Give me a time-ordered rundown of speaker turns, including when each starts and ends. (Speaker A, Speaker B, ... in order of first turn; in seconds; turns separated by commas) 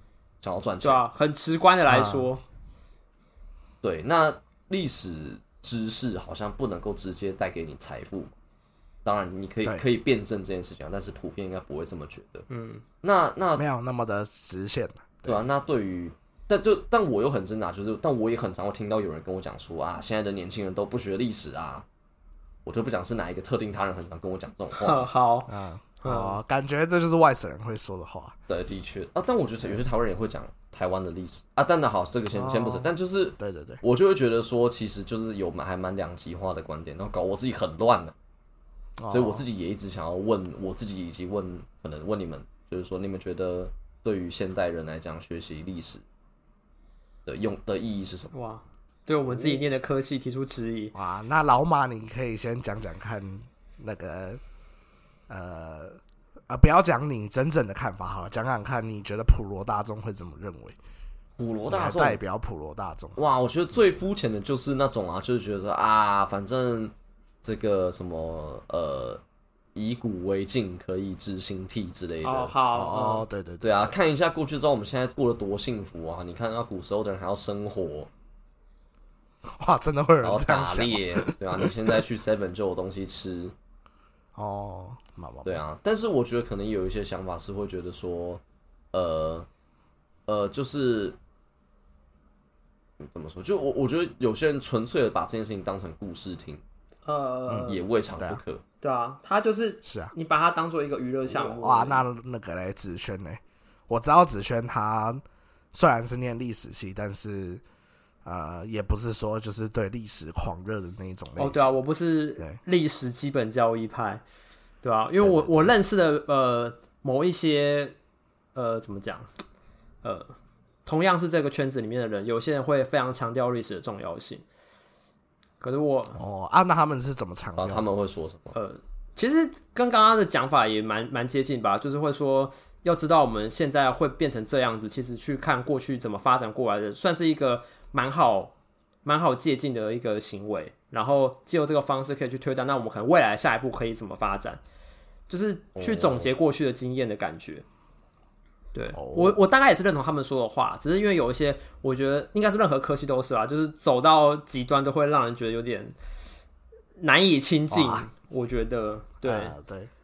Speaker A: 0.4-1.0, Speaker B: 0.8-2.4, Speaker C: 1.9-2.3, Speaker A: 3.8-8.3, Speaker A: 9.0-12.4, Speaker B: 12.5-12.8, Speaker A: 13.0-13.6, Speaker C: 13.6-15.4, Speaker A: 15.2-21.8, Speaker A: 22.6-25.1, Speaker B: 24.7-26.4, Speaker C: 25.5-28.4, Speaker A: 28.5-38.1, Speaker C: 32.3-33.8, Speaker C: 39.0-39.5, Speaker A: 39.1-46.0, Speaker A: 47.2-48.3, Speaker B: 48.3-50.9, Speaker C: 50.9-54.4, Speaker C: 55.3-60.8, Speaker A: 61.4-62.2, Speaker C: 61.7-63.2, Speaker A: 63.2-66.9, Speaker A: 67.4-69.2, Speaker A: 69.7-72.5, Speaker B: 72.2-73.3, Speaker C: 72.7-73.9, Speaker A: 73.6-78.1, Speaker C: 79.5-82.0, Speaker A: 80.2-83.5, Speaker C: 84.3-85.6, Speaker A: 85.4-88.4, Speaker A: 88.9-89.5, Speaker A: 90.3-91.2, Speaker A: 93.0-96.6, Speaker B: 97.0-97.8, Speaker C: 97.5-98.4, Speaker A: 97.7-98.6, Speaker B: 98.8-102.0, Speaker C: 99.8-100.1, Speaker C: 101.3-107.6, Speaker C: 108.2-111.7, Speaker B: 111.4-114.2, Speaker B: 114.8-117.9, Speaker C: 115.2-115.7, Speaker B: 118.5-119.3, Speaker B: 120.0-120.3, Speaker B: 120.8-124.4, Speaker B: 125.6-126.2, Speaker C: 126.1-127.8, Speaker A: 127.6-128.5, Speaker B: 128.5-138.5, Speaker B: 139.0-144.6, Speaker B: 145.3-147.6, Speaker A: 145.8-146.3, Speaker B: 148.7-155.9, Speaker C: 148.9-149.4, Speaker B: 157.0-159.5, Speaker C: 157.7-158.1, Speaker C: 159.2-159.9